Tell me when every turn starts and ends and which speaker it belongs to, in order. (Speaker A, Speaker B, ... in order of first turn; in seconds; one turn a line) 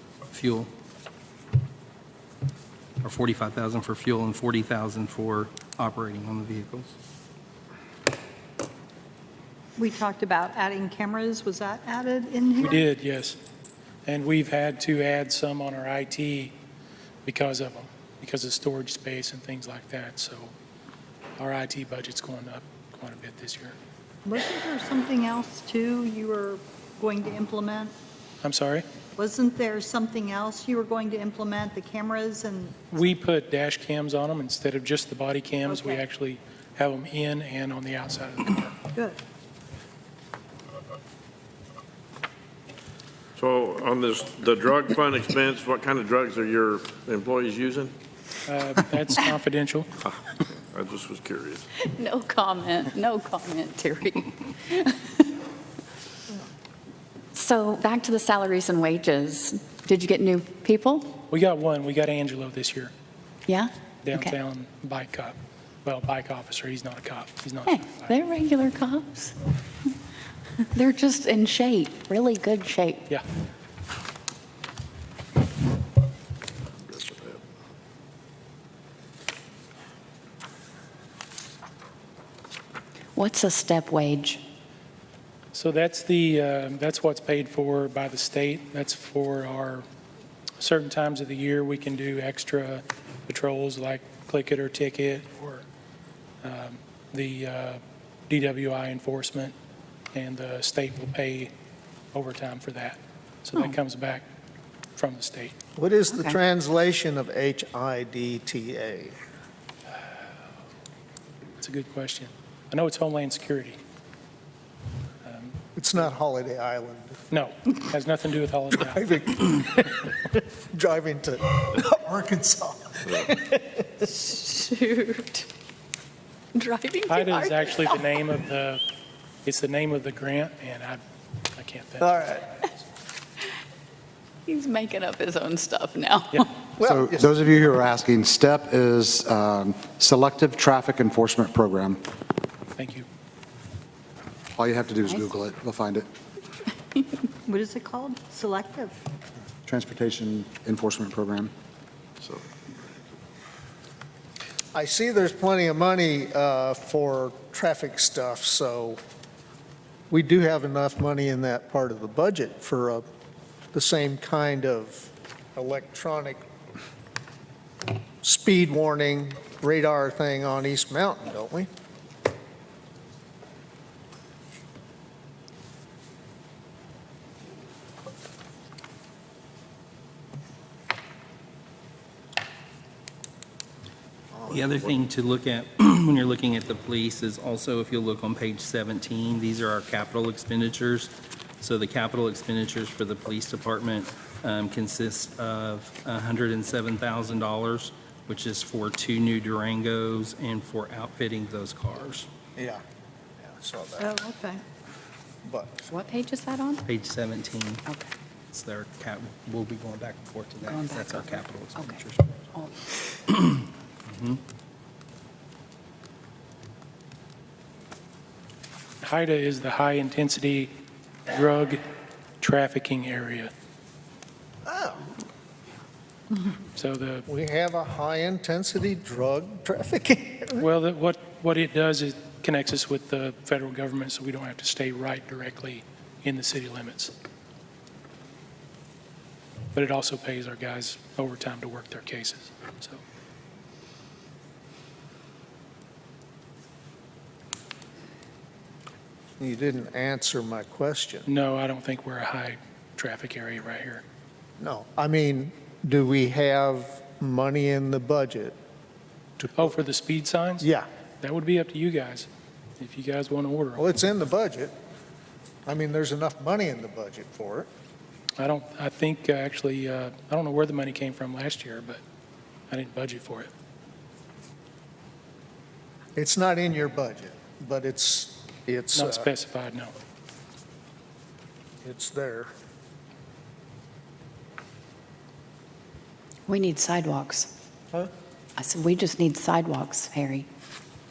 Speaker A: 0.3-0.7
Speaker A: 3.0-6.9
Speaker B: 9.8-12.8
Speaker C: 12.6-13.4
Speaker C: 14.1-16.5
Speaker C: 17.2-20.5
Speaker C: 21.4-23.7
Speaker B: 24.2-27.9
Speaker C: 28.4-28.9
Speaker B: 29.2-32.9
Speaker C: 32.9-38.8
Speaker B: 35.7-36.0
Speaker D: 43.4-47.9
Speaker C: 48.5-49.9
Speaker D: 50.5-51.6
Speaker E: 51.8-55.3
Speaker E: 57.3-61.2
Speaker C: 61.3-62.9
Speaker E: 63.5-64.3
Speaker C: 64.0-68.1
Speaker E: 67.7-69.3
Speaker E: 70.7-73.1
Speaker D: 76.8-77.4
Speaker E: 83.1-84.4
Speaker C: 85.5-89.8
Speaker C: 90.6-95.6
Speaker C: 96.4-99.5
Speaker C: 100.1-101.5
Speaker C: 102.1-104.2
Speaker C: 105.0-105.5
Speaker F: 105.8-109.1
Speaker C: 111.6-113.8
Speaker C: 115.2-115.5
Speaker F: 115.8-117.2
Speaker C: 117.3-119.2
Speaker F: 118.8-123.9
Speaker E: 124.0-125.5
Speaker E: 126.5-128.0
Speaker C: 127.1-128.8
Speaker C: 129.4-131.0
Speaker C: 131.5-132.2
Speaker F: 132.0-132.4
Speaker E: 134.4-136.5
Speaker F: 136.8-137.5
Speaker G: 136.8-141.9
Speaker C: 142.8-143.1
Speaker G: 144.6-146.0
Speaker E: 145.1-145.3
Speaker B: 147.4-148.9
Speaker G: 149.7-151.5
Speaker D: 152.2-153.2
Speaker F: 154.7-159.0
Speaker F: 160.1-163.0
Speaker F: 163.7-166.4
Speaker F: 168.2-171.7
Speaker F: 184.3-184.6
Speaker A: 184.5-202.3
Speaker F: 202.6-202.8
Speaker F: 203.4-204.2
Speaker B: 204.0-204.6
Speaker F: 205.4-205.9
Speaker E: 205.9-206.8
Speaker A: 206.8-207.8
Speaker E: 207.8-208.1
Speaker A: 208.5-212.4
Speaker E: 210.7-211.2
Speaker A: 213.4-214.4
Speaker C: 219.0-220.7
Speaker C: 221.3-221.8
Speaker C: 222.4-223.5
Speaker F: 224.7-225.1
Speaker C: 226.8-227.3
Speaker F: 227.3-230.7
Speaker C: 230.6-237.1
Speaker C: 239.7-243.0
Speaker F: 249.4-251.3
Speaker C: 251.2-254.0
Speaker F: 254.6-258.5
Speaker F: 259.4-259.8
Speaker C: 259.5-260.7
Speaker F: 260.6-260.9
Speaker C: 261.2-262.3
Speaker C: 262.8-263.9
Speaker F: 263.8-264.7
Speaker F: 265.6-267.7
Speaker C: 268.4-272.0
Speaker C: 272.7-273.5
Speaker F: 276.1-279.3
Speaker C: 278.9-279.9
Speaker F: 281.8-282.5
Speaker E: 286.5-287.5
Speaker E: 288.6-290.5